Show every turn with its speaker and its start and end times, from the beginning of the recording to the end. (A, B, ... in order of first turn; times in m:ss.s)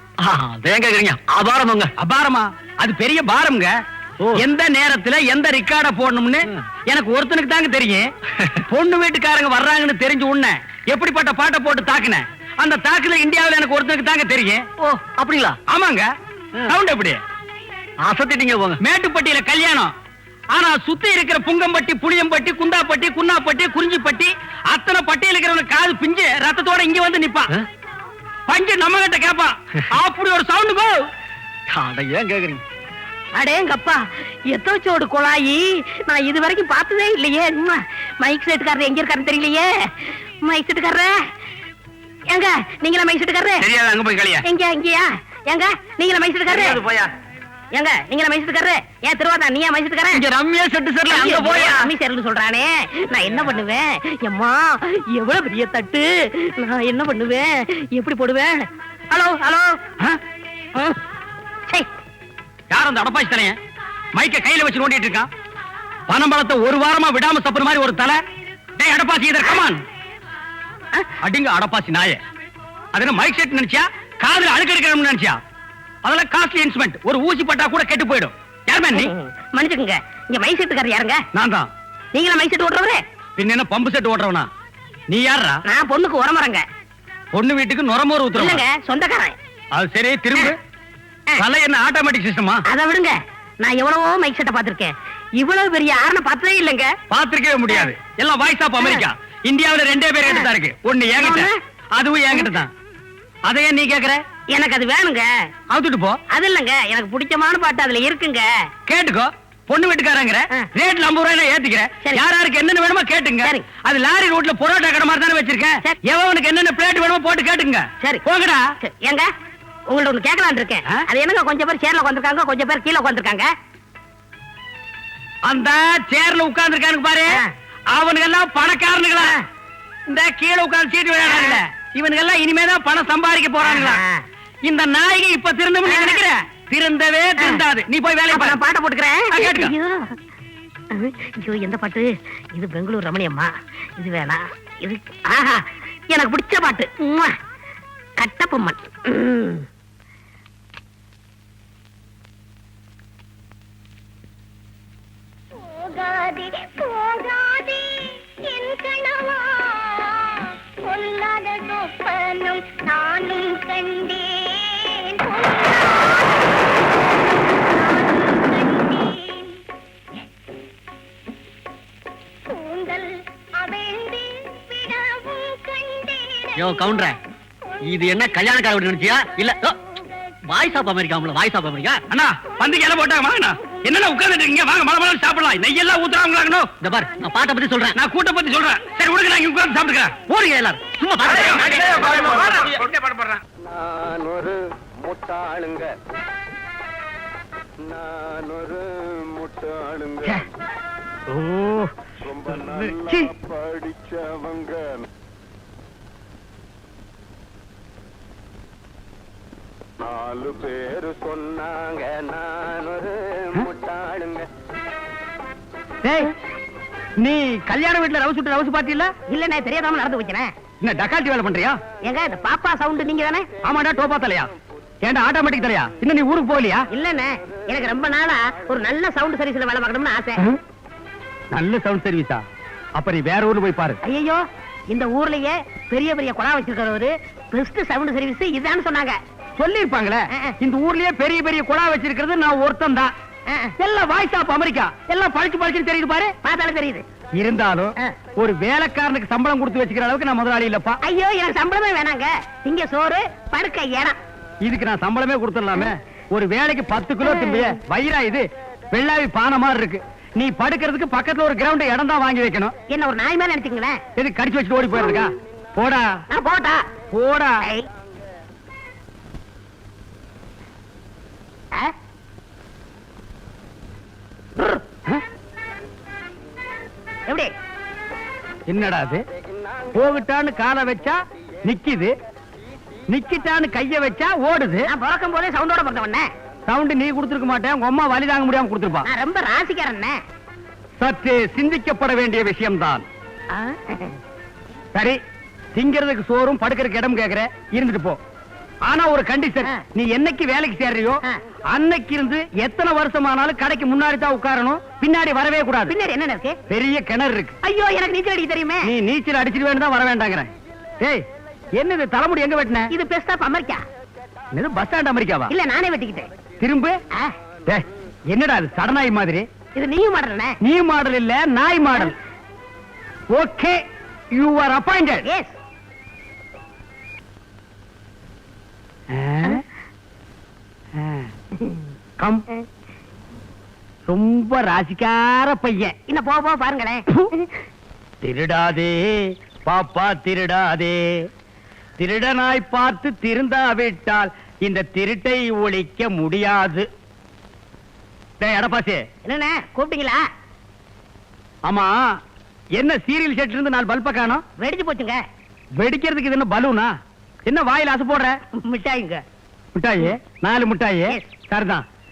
0:00.2-0:01.9 A
0:02.0-0:03.7 B
0:04.3-0:08.1 B
0:08.7-0:14.6 B
0:14.8-0:15.6 A
0:15.7-0:16.1 B
0:16.7-0:17.2 B
0:18.0-0:18.8 A
0:18.8-0:19.9 B
0:20.5-0:27.5 B
0:28.5-0:31.0 B
0:31.7-0:32.6 A
0:33.3-0:41.2 C
0:42.3-0:43.6 C
0:43.6-0:44.4 B
0:44.4-0:46.8 C
0:47.7-0:50.2 C
0:50.1-0:51.8 A
0:51.1-0:59.8 C
1:02.7-1:03.6 B
1:04.1-1:05.3 B
1:06.1-1:08.2 B
1:08.8-1:09.8 B
1:11.2-1:12.2 B
1:12.9-1:15.4 B
1:16.0-1:19.1 B
1:18.9-1:21.2 C
1:21.3-1:21.7 B
1:22.1-1:23.0 C
1:23.4-1:24.5 B
1:25.1-1:25.6 B
1:25.7-1:26.6 C
1:27.3-1:28.6 B
1:28.3-1:29.3 C
1:29.7-1:30.6 B
1:31.4-1:32.6 B
1:32.7-1:36.9 C
1:37.1-1:42.7 B
1:41.2-1:41.6 C
1:43.5-1:44.2 B
1:44.5-1:45.3 C
1:45.7-1:46.2 B
1:46.3-1:48.5 C
1:48.9-1:58.6 B
1:58.8-1:59.3 C
1:59.9-2:03.5 C
2:05.5-2:07.4 B
2:07.9-2:09.3 B
2:10.1-2:14.0 B
2:11.3-2:11.6 C
2:13.6-2:14.2 C
2:14.6-2:18.6 B
2:15.8-2:16.2 C
2:18.3-2:20.1 C
2:19.3-2:19.7 B
2:20.9-2:27.4 C
2:28.2-2:29.6 C
2:35.6-2:46.5 D
2:47.4-2:49.6 D
2:52.4-2:56.6 D
2:56.6-2:57.2 A
2:57.8-2:59.8 A
3:00.5-3:02.0 A
3:02.1-3:06.7 B
3:06.8-3:07.9 A
3:07.9-3:13.4 B
3:10.9-3:12.7 A
3:13.8-3:14.6 E
3:15.1-3:15.9 E
3:17.9-3:20.2 E
3:20.2-3:20.5 B
3:21.3-3:21.9 B
3:22.5-3:23.3 B
3:23.7-3:24.9 E
3:30.1-3:34.5 E
3:36.0-3:36.3 B
3:37.2-3:39.1 B
3:39.3-3:40.5 C
3:40.8-3:41.8 B
3:42.0-3:43.5 C
3:43.6-3:44.5 B
3:45.0-3:46.8 B
3:46.9-3:50.4 C
3:51.5-3:52.4 B
3:53.0-3:54.0 B
3:54.0-3:59.2 C
3:59.6-4:03.1 B
4:03.5-4:03.7 C
4:03.8-4:06.3 B
4:06.4-4:07.0 C
4:07.4-4:11.0 B
4:11.0-4:14.2 C
4:14.6-4:22.7 B
4:17.2-4:17.8 C
4:22.9-4:24.0 C
4:24.2-4:26.1 B
4:26.3-4:26.8 C
4:27.1-4:27.6 B
4:34.6-4:34.8 C
4:38.7-4:39.2 B
4:39.9-4:42.1 B
4:43.1-4:44.9 B
4:44.9-4:46.3 C
4:46.7-4:49.1 B
4:49.0-4:50.2 C
4:51.0-4:53.0 B
4:53.5-4:54.2 C
4:55.7-4:58.2 B
4:58.8-5:01.2 B
5:01.7-5:05.9 B
5:05.9-5:06.6 C
5:06.7-5:07.5 B
5:07.6-5:08.9 C
5:08.8-5:11.2 B
5:11.8-5:12.9 B
5:12.9-5:13.8 C
5:14.5-5:15.5 B
5:15.5-5:16.3 C
5:16.6-5:17.0 B
5:17.7-5:19.4 B
5:19.7-5:20.6 C
5:20.6-5:22.2 B
5:23.3-5:23.8 B
5:24.3-5:25.2 B
5:25.2-5:25.6 C
5:29.1-5:29.6 B
5:31.0-5:31.3 B
5:32.2-5:32.4 B
5:34.1-5:35.9 B
5:36.1-5:37.4 C
5:38.2-5:41.1 B
5:42.0-5:46.9 B
5:48.4-5:49.0 B
5:49.2-5:50.2 C
5:51.6-5:52.0 B
5:52.8-5:54.4 B
5:54.6-5:55.2 C
5:55.8-5:56.9 B
5:57.5-5:58.4 B
5:58.6-5:59.2 C
5:59.7-6:01.8 B